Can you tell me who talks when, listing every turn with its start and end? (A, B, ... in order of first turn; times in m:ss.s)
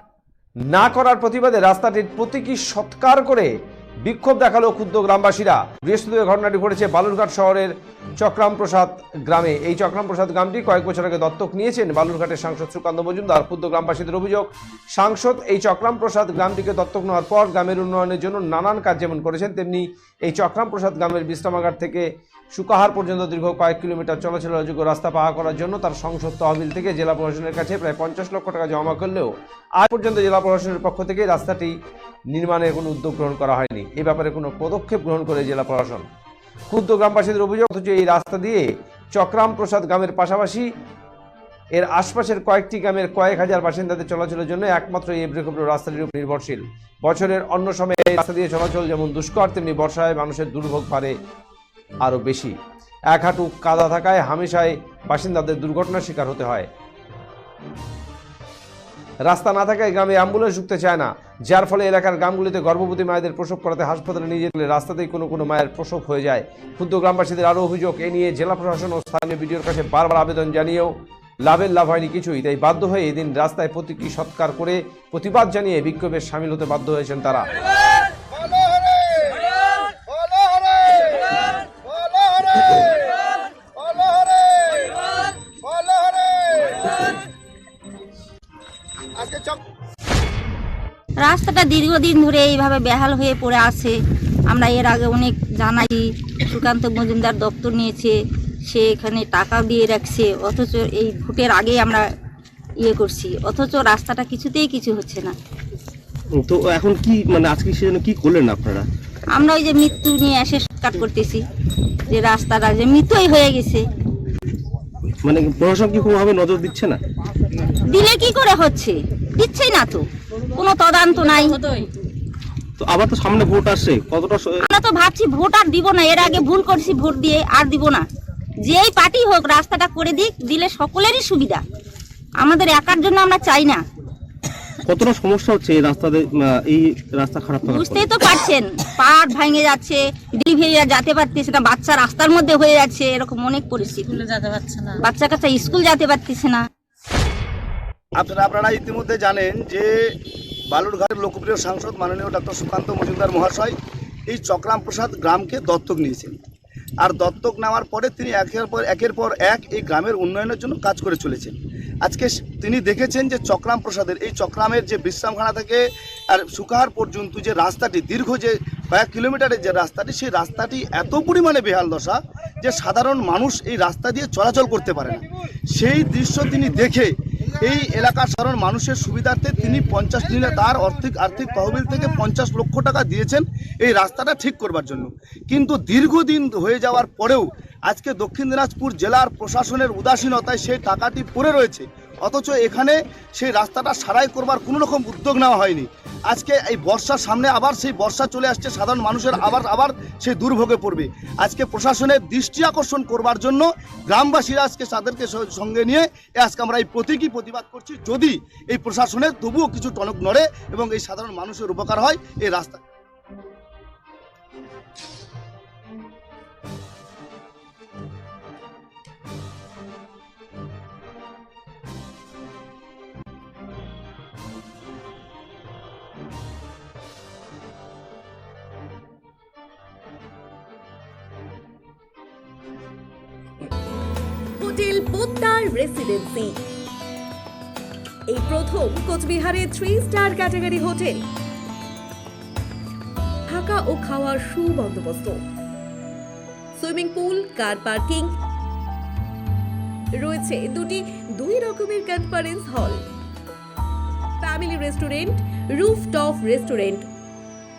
0:00.7-0:03.5 A
0:04.0-0:31.8 A
0:32.3-0:36.0 A
0:36.7-0:40.7 A
0:41.7-0:51.2 A
0:52.0-0:52.6 A
0:53.1-0:56.7 A
0:59.2-1:17.5 A
1:22.0-1:22.9 B
1:23.9-1:24.9 B
1:26.0-1:26.6 B
1:31.2-1:42.1 C
1:42.8-1:45.4 C
1:46.4-1:48.9 D
1:49.3-1:51.4 C
1:52.1-1:53.9 C
1:55.2-1:57.0 D
1:57.9-2:01.6 C
2:01.1-2:01.9 E
2:02.8-2:04.6 D
2:04.7-2:08.1 C
2:08.6-2:11.6 C
2:12.4-2:13.8 C
2:14.9-2:18.1 D
2:17.7-2:24.2 C
2:23.9-2:25.0 E
2:25.0-2:26.6 C
2:28.2-2:30.2 B
2:30.7-2:33.8 B
2:34.3-2:36.4 B
2:37.0-2:55.2 B
2:55.8-3:32.8 B
3:54.6-3:56.6 F
3:58.3-4:01.2 F
4:03.5-4:05.4 F
4:06.8-4:08.4 F
4:10.2-4:13.1 F
4:14.4-4:17.1 F